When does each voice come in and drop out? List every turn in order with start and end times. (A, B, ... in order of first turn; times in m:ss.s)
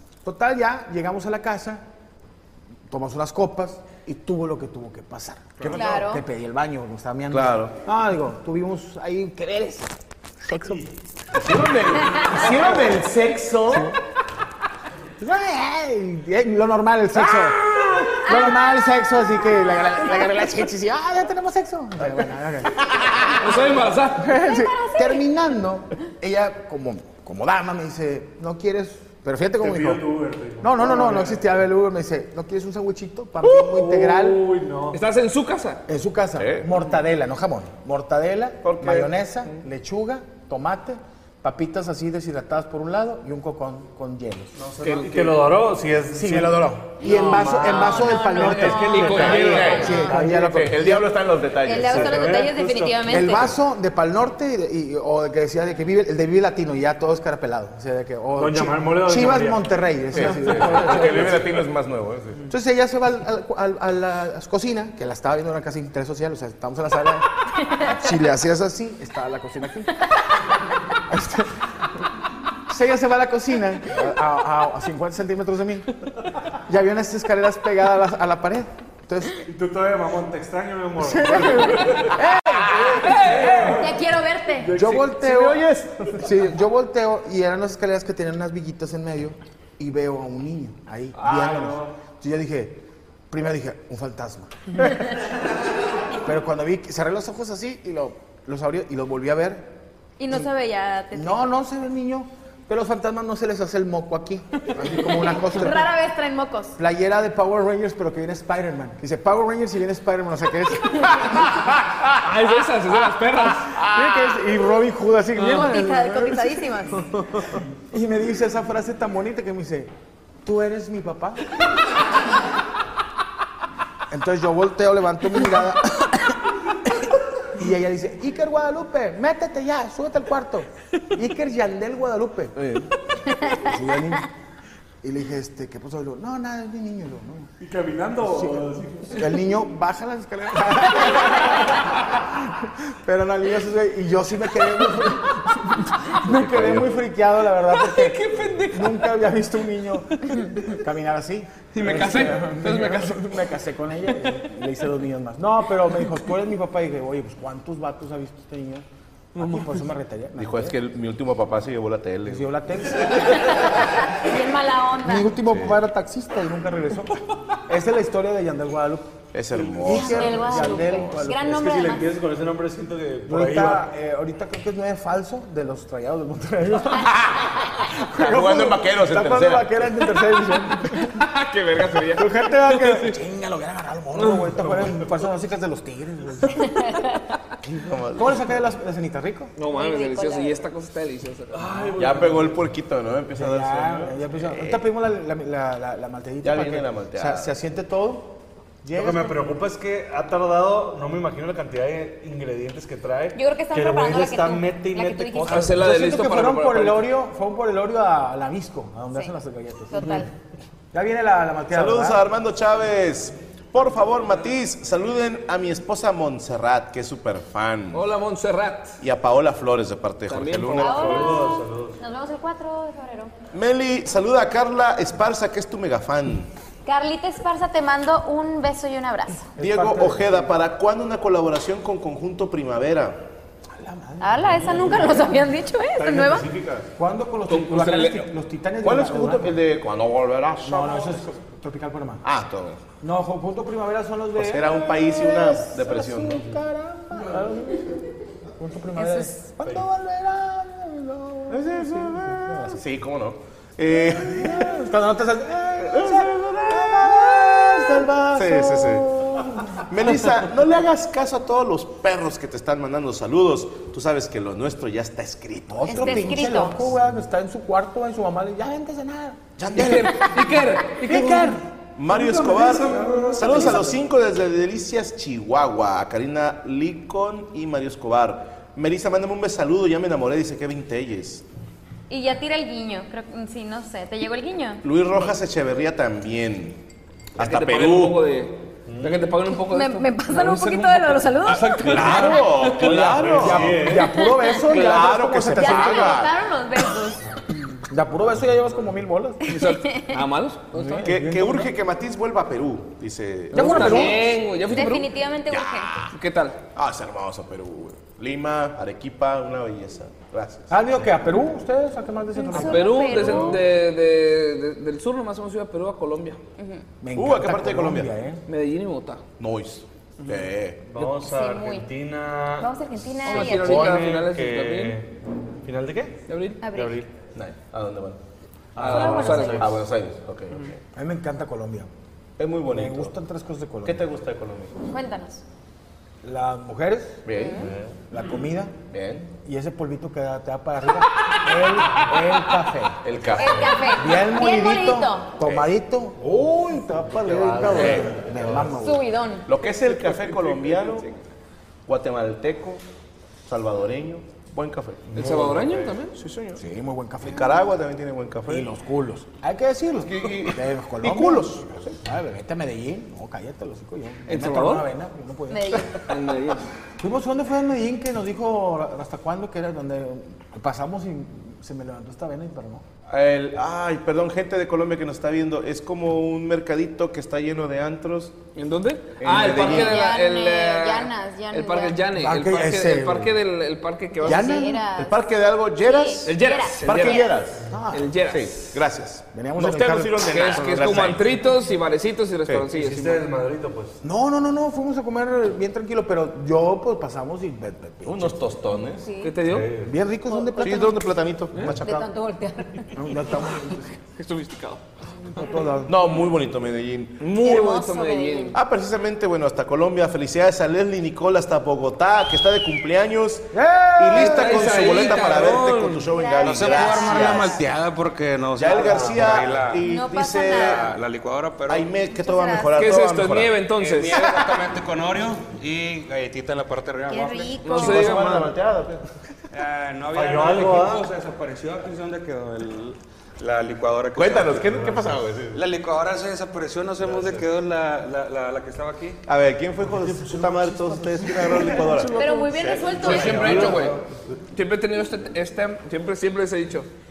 0:00.2-0:01.8 A
0:02.9-0:10.9 A
0:05.7-0:06.2 B
0:07.3-0:07.7 C
0:11.3-0:13.9 C
0:12.4-0:12.8 A
0:13.7-0:14.0 A
0:15.2-0:17.6 A
0:17.2-0:18.3 C
0:18.2-0:23.6 A
0:18.2-0:18.5 B
0:23.3-0:24.4 D
0:24.2-0:30.0 A
0:24.3-0:25.2 B
0:29.6-0:31.6 E
0:30.6-0:34.5 A
0:33.4-0:35.0 E
0:34.9-0:35.8 D
0:35.9-0:44.5 A
0:36.4-0:36.7 C
0:38.6-0:39.2 C
0:44.6-0:50.7 E
0:44.8-0:45.4 D
0:46.1-0:51.1 A
0:47.0-0:50.1 B
0:47.6-0:50.0 D
0:49.3-0:52.3 C
0:51.6-0:53.5 B
0:51.8-0:53.3 E
0:53.0-1:01.4 A
0:58.4-1:01.4 E
1:00.1-1:02.4 C
1:02.5-1:10.1 A
1:11.0-1:11.6 A
1:12.7-1:16.0 A
1:16.7-1:19.4 A
1:19.5-1:25.7 E
1:21.0-1:23.7 A
1:23.0-1:23.7 D
1:23.7-1:24.7 B
1:24.7-1:35.1 A
1:25.2-1:26.2 C
1:31.2-1:31.9 E
1:36.2-1:39.7 A
1:40.2-1:41.5 B
1:41.1-1:45.9 A
1:45.0-1:46.8 B
1:46.8-1:52.1 A
1:52.2-1:53.8 D
1:53.8-1:56.6 A
1:55.4-1:57.0 B
1:57.9-1:59.9 A
2:00.4-2:01.5 A
2:04.1-2:06.9 A
2:07.6-2:12.6 A
2:12.6-2:12.9 C
2:13.4-2:14.3 A
2:15.0-2:17.5 A
2:17.6-2:19.4 E
2:18.2-2:40.8 A
2:26.2-2:27.0 C
2:27.7-2:29.3 D
2:30.2-2:30.6 D
2:31.7-2:33.4 D
2:39.4-2:39.8 D
2:40.4-2:42.5 C
2:42.3-2:43.8 A
2:43.2-2:45.4 B
2:45.0-2:51.8 A
2:45.4-2:45.8 C
2:49.3-2:51.2 C
2:49.9-2:52.1 B
2:51.4-2:53.9 E
2:53.3-3:01.1 A
2:58.1-3:00.0 C
3:01.0-3:03.2 D
3:02.1-3:06.9 A
3:04.2-3:04.9 D
3:07.6-3:08.6 C
3:08.2-3:09.5 A
3:09.6-3:11.8 D
3:09.6-3:10.6 B
3:11.5-3:12.6 E
3:12.0-3:14.9 C
3:13.3-3:19.5 A
3:16.4-3:17.5 C
3:18.9-3:26.0 E
3:23.4-3:25.7 B
3:25.5-3:27.1 D
3:25.7-3:30.3 A
3:29.9-3:30.3 B
3:30.9-3:32.2 A
3:31.7-3:38.0 C
3:37.9-3:39.0 D
3:39.0-3:41.3 C
3:40.3-3:41.3 D
3:40.8-3:43.3 B
3:40.9-3:42.0 E
3:43.5-3:46.5 C
3:46.8-3:49.5 B
3:49.6-3:50.5 A
3:49.6-3:53.2 C
3:53.8-3:54.9 A
3:54.2-3:56.5 B
3:54.4-3:55.4 E
3:55.9-3:56.9 E
3:57.0-3:59.6 A
3:57.5-3:58.3 D
3:58.8-4:01.2 C
4:00.6-4:02.2 A
4:02.2-4:02.8 C
4:03.0-4:08.0 A
4:04.4-4:06.5 C
4:08.6-4:12.8 A
4:09.0-4:09.4 B
4:11.5-4:14.9 C
4:13.9-4:19.9 A
4:15.8-4:19.1 C
4:19.8-4:26.5 C
4:25.7-4:29.8 A
4:25.8-4:26.8 B
4:29.6-4:30.4 C
4:29.7-4:31.6 D
4:30.5-4:31.6 A
4:32.0-4:41.4 C
4:32.1-4:33.9 D
4:32.2-4:33.7 E
4:42.1-4:44.8 B
4:44.8-4:46.8 C
4:47.4-4:48.2 C
4:47.4-4:53.1 D
4:48.9-4:49.4 E
4:49.5-4:52.1 B
4:51.8-4:54.0 C
4:51.8-4:54.3 E
4:53.3-4:56.3 A
4:54.2-4:54.6 B
4:54.6-4:56.3 C
4:55.6-4:57.2 B
4:57.9-4:59.6 A
4:59.5-5:00.6 D
4:59.5-5:00.2 B
5:00.7-5:01.7 A
5:01.0-5:04.4 C
5:03.5-5:04.4 A
5:03.5-5:05.1 D
5:04.6-5:06.0 B
5:05.5-5:06.1 C
5:06.1-5:06.6 D
5:06.8-5:10.7 C
5:10.7-5:13.6 A
5:12.4-5:13.6 B
5:12.5-5:16.4 D
5:16.6-5:16.8 B
5:17.0-5:18.4 A
5:17.1-5:18.1 C
5:18.5-5:19.2 D
5:19.4-5:20.8 C
5:20.9-5:25.1 E
5:21.1-5:21.9 B
5:22.6-5:24.0 B
5:23.2-5:25.0 D
5:25.6-5:27.1 E
5:26.3-5:26.6 D
5:26.6-5:27.0 B
5:27.4-5:28.2 C
5:28.8-5:29.7 E
5:28.8-5:29.7 D
5:28.9-5:30.8 C
5:28.9-5:29.7 B
5:28.9-5:29.5 A
5:31.0-5:31.9 A
5:32.4-5:33.2 C
5:32.7-5:34.0 A
5:33.8-5:34.8 C
5:34.9-5:35.4 B
5:36.2-5:37.3 A
5:37.2-5:37.7 C
5:37.3-5:37.7 B
5:37.6-5:38.0 E
5:38.1-5:38.7 A
5:38.9-5:39.3 C
5:39.3-5:43.3 A
5:43.0-5:43.8 C
5:43.4-5:45.4 B
5:43.4-5:43.8 E
5:43.8-5:49.1 A
5:46.2-5:48.8 E
5:47.7-5:48.1 C
5:48.8-5:49.5 B
5:49.5-5:51.1 C
5:50.5-5:51.0 D
5:51.9-5:52.8 C
5:53.5-5:55.3 C
5:55.1-5:56.0 E
5:55.1-5:56.2 D
5:56.2-5:56.6 C
5:56.6-5:57.6 A
5:57.2-5:58.7 C
5:58.5-6:06.0 A
6:00.0-6:01.9 C
6:04.3-6:04.9 D
6:05.5-6:06.0 B
6:06.1-6:06.7 D
6:07.0-6:12.8 A
6:13.1-6:18.4 C
6:18.6-6:24.6 D
6:19.2-6:20.1 C
6:19.6-6:22.1 B
6:22.1-6:23.4 A
6:24.2-6:24.8 A
6:24.2-6:25.2 B
6:24.9-6:27.6 C
6:25.8-6:27.4 B
6:26.2-6:27.3 D
6:27.7-6:28.1 A
6:27.9-6:28.7 D
6:28.3-6:31.4 C
6:29.3-6:31.0 A
6:30.3-6:33.2 D
6:32.7-6:34.0 E
6:34.0-6:38.4 A
6:38.0-6:39.1 C
6:39.0-6:39.4 B
6:39.2-6:39.7 D
6:39.4-6:40.0 E
6:39.8-6:41.1 A
6:40.3-6:40.8 B
6:40.6-6:42.1 C
6:41.6-6:42.0 A
6:41.8-6:43.0 B
6:42.9-6:44.0 A
6:44.2-6:44.8 D
6:45.3-6:45.9 A
6:45.9-6:47.2 C
6:47.2-6:48.6 D
6:47.3-6:48.6 B
6:48.5-6:57.6 C
6:53.5-6:55.3 A
6:54.1-6:56.1 D
6:56.1-6:57.6 B
6:56.4-6:59.9 F
6:58.6-7:00.9 C
6:58.7-6:59.4 E
6:59.8-7:00.9 B
7:00.6-7:01.9 F
7:01.7-7:03.6 C
7:02.0-7:02.8 B
7:02.8-7:04.3 D
7:03.8-7:07.6 F
7:07.1-7:08.1 B
7:07.6-7:08.5 D
7:07.7-7:09.0 C
7:09.5-7:14.8 F
7:10.1-7:11.1 E
7:14.2-7:15.6 C
7:15.5-7:19.2 F
7:17.0-7:17.4 E
7:19.3-7:22.5 C
7:20.0-7:22.0 E
7:22.2-7:23.8 B
7:22.9-7:24.0 E
7:23.0-7:24.0 D
7:23.0-7:23.7 C
7:24.5-7:26.9 D